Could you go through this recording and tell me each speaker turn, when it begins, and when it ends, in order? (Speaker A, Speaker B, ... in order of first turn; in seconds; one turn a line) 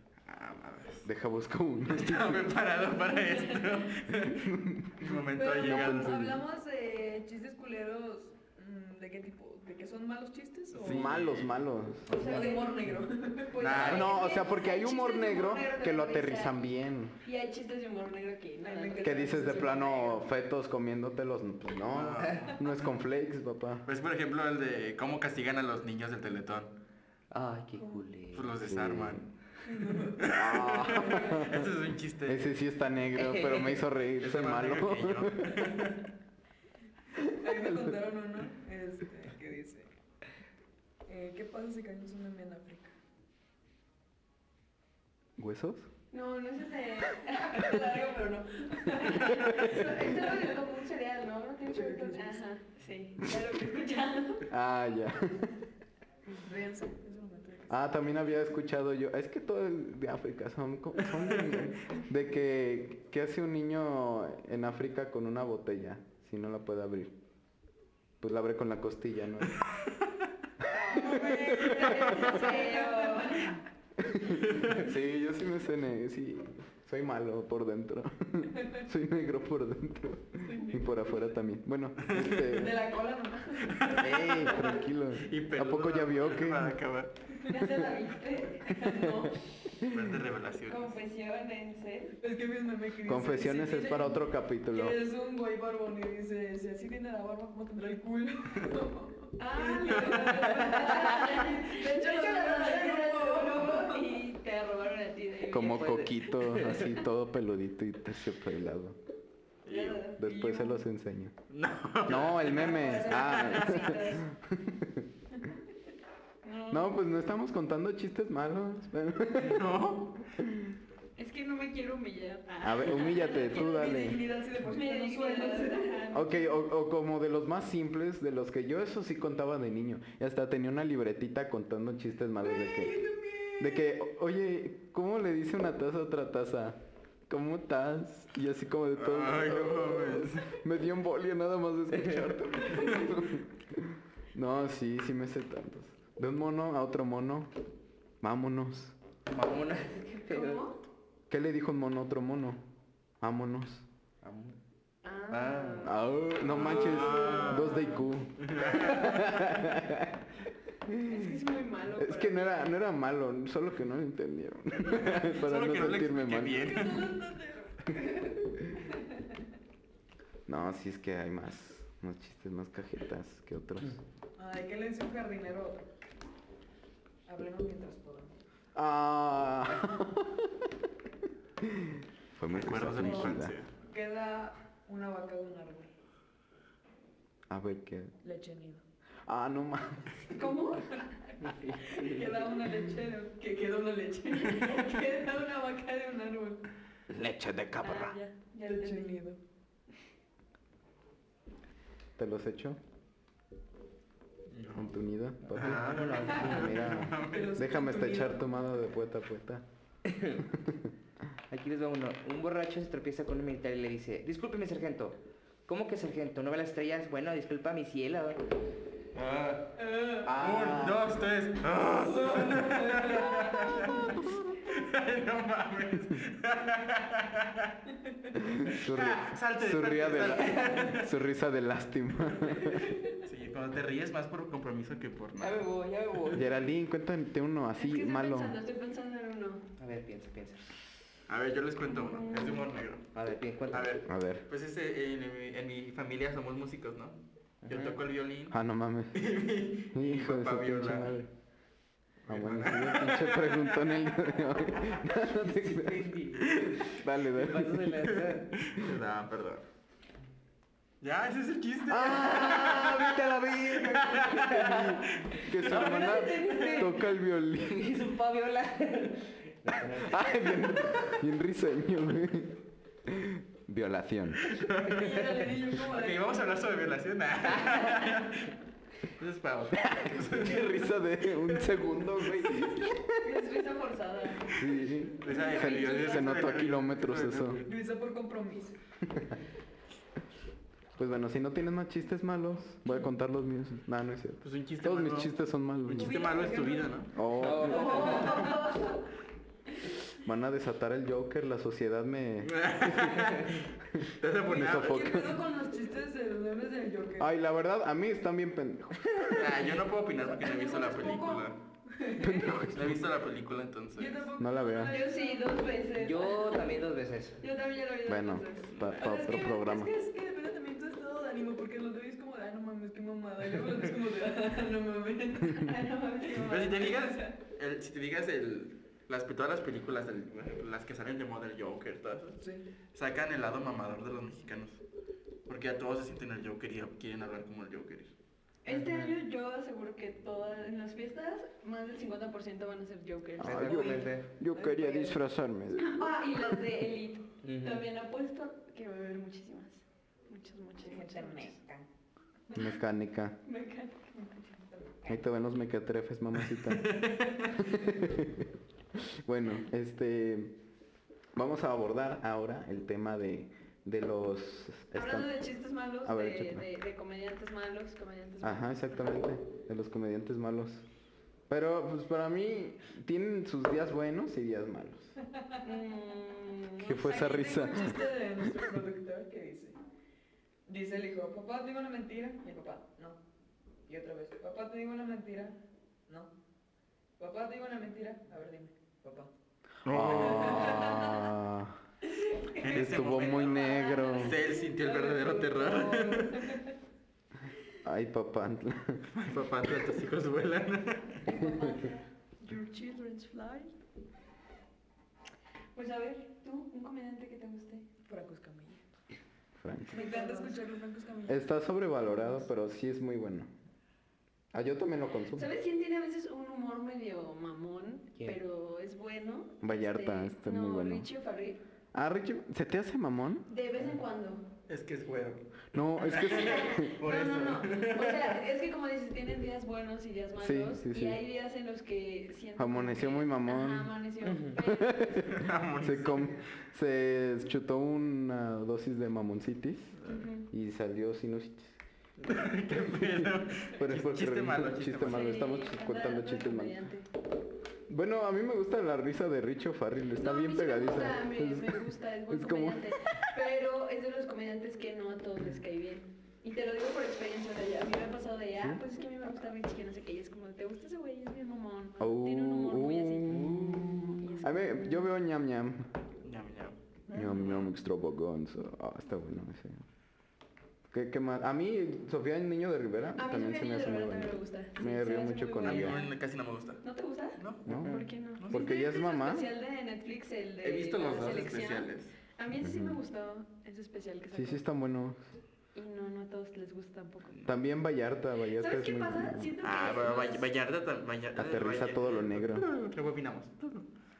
Speaker A: 0.2-1.1
Speaker B: 1.0-2.5
Speaker A: 1.9-6.3
Speaker B: 4.3-6.4
Speaker C: 5.3-11.2
Speaker A: 10.7-11.5
Speaker B: 10.8-12.1
Speaker D: 12.1-12.8
Speaker E: 12.1-12.5
Speaker C: 12.1-14.1
Speaker D: 13.5-16.6
Speaker A: 13.6-14.1
Speaker B: 13.7-17.2
Speaker D: 17.2-20.2
Speaker C: 18.6-20.0
Speaker B: 19.0-23.9
Speaker A: 21.9-22.7
Speaker E: 22.2-22.5
Speaker A: 23.9-26.7
Speaker E: 27.3-28.6
Speaker A: 28.3-29.3
Speaker B: 28.6-29.2
Speaker C: 29.6-31.4
Speaker A: 30.2-32.5
Speaker B: 30.3-31.7
Speaker B: 32.2-35.7
Speaker E: 33.1-33.8
Speaker A: 34.2-36.0
Speaker B: 37.2-37.9
Speaker C: 37.4-39.9
Speaker C: 41.0-42.9
Speaker B: 45.4-45.9
Speaker D: 46.1-54.5
Speaker C: 47.3-50.5
Speaker C: 51.7-52.4
Speaker B: 54.5-55.5
Speaker C: 56.3-57.9
Speaker B: 57.7-67.1
Speaker A: 61.1-61.7
Speaker B: 68.2-69.6
Speaker A: 69.6-70.1
Speaker D: 70.7-73.6
Speaker C: 70.7-73.6
Speaker B: 70.9-72.0
Speaker B: 74.0-82.8
Speaker A: 74.4-74.8
Speaker C: 80.4-80.8
Speaker A: 82.0-82.5
Speaker C: 82.5-84.5
Speaker A: 83.7-84.5
Speaker B: 84.0-86.8
Speaker A: 85.2-87.3
Speaker D: 87.4-89.4
Speaker C: 88.7-89.2
Speaker B: 89.8-90.1
Speaker A: 89.8-90.9
Speaker D: 90.7-92.2
Speaker C: 92.2-94.2
Speaker B: 93.0-95.0
Speaker C: 94.7-104.2
Speaker D: 99.4-106.1
Speaker B: 105.5-109.0
Speaker E: 105.6-106.8
Speaker A: 109.7-110.0
Speaker D: 109.7-110.8
Speaker B: 110.2-111.3
Speaker A: 111.5-113.9
Speaker B: 112.0-115.1
Speaker D: 112.5-114.2
Speaker D: 116.4-117.0
Speaker B: 116.7-119.8
Speaker A: 119.4-120.2
Speaker B: 120.3-120.8
Speaker D: 121.2-123.9
Speaker B: 122.6-124.2
Speaker C: 123.0-126.0
Speaker D: 124.7-126.6
Speaker B: 126.1-133.0
Speaker C: 132.4-133.8
Speaker B: 133.6-147.5
Speaker A: 138.9-140.5
Speaker B: 148.2-148.9
Speaker E: 149.3-150.6
Speaker D: 150.2-150.8
Speaker B: 151.3-152.6
Speaker B: 153.2-153.8
Speaker E: 154.2-154.6
Speaker D: 155.0-158.1
Speaker A: 155.3-155.9
Speaker B: 155.8-160.2
Speaker A: 156.4-157.9
Speaker A: 158.4-159.6
Speaker B: 160.8-161.3
Speaker D: 161.0-162.7
Speaker B: 162.0-166.7
Speaker A: 164.9-167.2
Speaker C: 166.5-168.5
Speaker B: 170.5-174.0
Speaker C: 174.4-175.9
Speaker C: 177.2-178.4
Speaker B: 178.7-180.7
Speaker B: 181.6-183.5
Speaker A: 182.5-183.7
Speaker C: 182.9-185.9
Speaker B: 187.5-188.1
Speaker C: 188.2-188.8
Speaker B: 189.3-190.1
Speaker D: 190.3-196.6
Speaker E: 191.4-192.1
Speaker C: 191.8-194.8
Speaker B: 197.1-198.2
Speaker D: 197.8-199.2
Speaker C: 198.6-199.4
Speaker B: 202.2-202.8
Speaker A: 204.5-204.9
Speaker B: 204.7-209.6
Speaker E: 205.5-206.9
Speaker A: 205.5-207.6
Speaker C: 207.2-208.5
Speaker E: 210.1-210.4
Speaker B: 210.4-210.9
Speaker E: 211.5-218.4
Speaker A: 219.1-227.8
Speaker C: 219.8-220.3
Speaker B: 220.2-221.1
Speaker C: 222.0-224.2
Speaker B: 228.3-232.9
Speaker A: 228.7-231.1
Speaker C: 232.5-233.2
Speaker A: 233.2-235.7
Speaker C: 235.4-236.5
Speaker B: 236.3-238.6
Speaker D: 237.8-239.6
Speaker E: 239.8-240.6
Speaker A: 241.3-243.2
Speaker D: 241.9-242.7
Speaker E: 243.1-244.0
Speaker A: 243.7-248.6
Speaker B: 244.1-244.4
Speaker E: 247.6-248.0
Speaker B: 248.5-249.2
Speaker A: 249.1-251.2
Speaker B: 249.9-251.3
Speaker A: 252.3-254.2
Speaker B: 252.3-257.9
Speaker E: 255.2-258.5
Speaker A: 257.9-259.6
Speaker A: 261.0-266.9
Speaker B: 261.9-268.0
Speaker E: 262.1-263.0
Speaker E: 264.4-265.0
Speaker E: 265.6-266.9
Speaker C: 266.0-266.8
Speaker E: 267.7-271.0
Speaker B: 270.0-274.6
Speaker A: 274.5-278.5
Speaker C: 274.8-276.3
Speaker A: 279.1-281.7
Speaker B: 279.7-283.3
Speaker D: 283.2-284.5
Speaker B: 284.5-287.6
Speaker A: 285.1-287.7
Speaker D: 285.3-286.2
Speaker C: 287.6-288.8
Speaker B: 289.1-289.3
Speaker B: 290.9-296.2
Speaker A: 294.4-297.1
Speaker C: 295.9-298.9
Speaker B: 297.1-298.1
Speaker E: 297.3-298.4
Speaker D: 297.7-299.0
Speaker B: 300.2-303.4
Speaker A: 302.4-305.3
Speaker B: 303.9-305.4
Speaker C: 304.4-307.3
Speaker B: 307.2-309.5
Speaker A: 309.3-311.6
Speaker C: 310.3-312.7
Speaker B: 312.2-313.0
Speaker A: 312.7-314.3
Speaker C: 313.9-315.8
Speaker B: 314.4-314.9
Speaker D: 314.8-316.8
Speaker E: 315.9-317.4
Speaker D: 317.4-318.7
Speaker B: 318.1-319.9
Speaker A: 318.7-319.1
Speaker C: 319.0-325.7
Speaker D: 325.5-326.9
Speaker A: 326.3-332.4
Speaker C: 332.4-332.6
Speaker A: 332.9-334.8
Speaker A: 335.5-338.1
Speaker D: 338.6-344.1
Speaker E: 338.7-339.1
Speaker E: 343.4-344.3
Speaker B: 343.4-346.1
Speaker C: 344.5-345.2
Speaker D: 345.8-351.6
Speaker E: 347.4-347.8
Speaker C: 350.8-351.9
Speaker B: 352.5-353.4
Speaker D: 353.4-354.5
Speaker C: 354.6-355.2
Speaker B: 355.1-360.6
Speaker A: 356.5-357.5
Speaker B: 361.3-365.3
Speaker D: 364.9-368.8
Speaker B: 366.0-366.6
Speaker B: 368.4-370.8
Speaker B: 371.5-375.1
Speaker D: 375.6-377.7
Speaker B: 376.8-378.0
Speaker C: 377.0-379.8
Speaker C: 380.7-383.2
Speaker C: 383.9-386.3
Speaker C: 387.2-389.3
Speaker A: 389.8-391.0
Speaker B: 389.9-391.8
Speaker C: 390.2-391.3
Speaker D: 392.3-396.6
Speaker A: 392.6-396.5
Speaker B: 392.7-394.4
Speaker C: 394.8-396.3
Speaker B: 397.8-399.1
Speaker A: 399.1-401.2
Speaker C: 401.2-401.9
Speaker D: 401.3-402.0
Speaker C: 402.4-403.7
Speaker D: 405.7-407.9
Speaker C: 408.1-408.8
Speaker B: 409.6-410.0
Speaker D: 409.9-410.6
Speaker C: 409.9-412.4
Speaker B: 411.3-413.5
Speaker B: 414.5-415.5
Speaker D: 415.3-421.6
Speaker B: 419.6-421.1
Speaker B: 421.9-423.5
Speaker D: 423.5-424.5
Speaker A: 424.7-425.4
Speaker B: 425.7-426.9
Speaker A: 426.0-428.4
Speaker D: 426.1-435.2
Speaker B: 430.4-431.2
Speaker B: 432.6-433.9
Speaker E: 434.2-434.6
Speaker B: 434.6-440.0
Speaker A: 435.3-436.4
Speaker D: 440.1-440.5
Speaker B: 440.5-441.8
Speaker A: 442.2-445.4
Speaker B: 443.7-446.8
Speaker D: 445.1-447.1
Speaker B: 447.9-453.2
Speaker D: 450.1-465.1
Speaker B: 462.0-465.9
Speaker E: 463.3-463.8
Speaker A: 466.2-467.7
Speaker B: 467.1-469.8
Speaker B: 470.9-476.0
Speaker D: 473.2-476.1
Speaker A: 475.6-476.8
Speaker D: 476.8-484.6
Speaker A: 477.4-477.7
Speaker B: 477.6-477.9
Speaker E: 477.7-478.1
Speaker A: 478.4-478.7
Speaker B: 478.5-479.5
Speaker A: 480.6-482.1
Speaker B: 482.6-483.0
Speaker B: 484.3-485.2
Speaker D: 485.7-487.4
Speaker B: 487.4-489.5
Speaker D: 488.6-490.5
Speaker A: 489.6-493.9
Speaker B: 491.4-492.7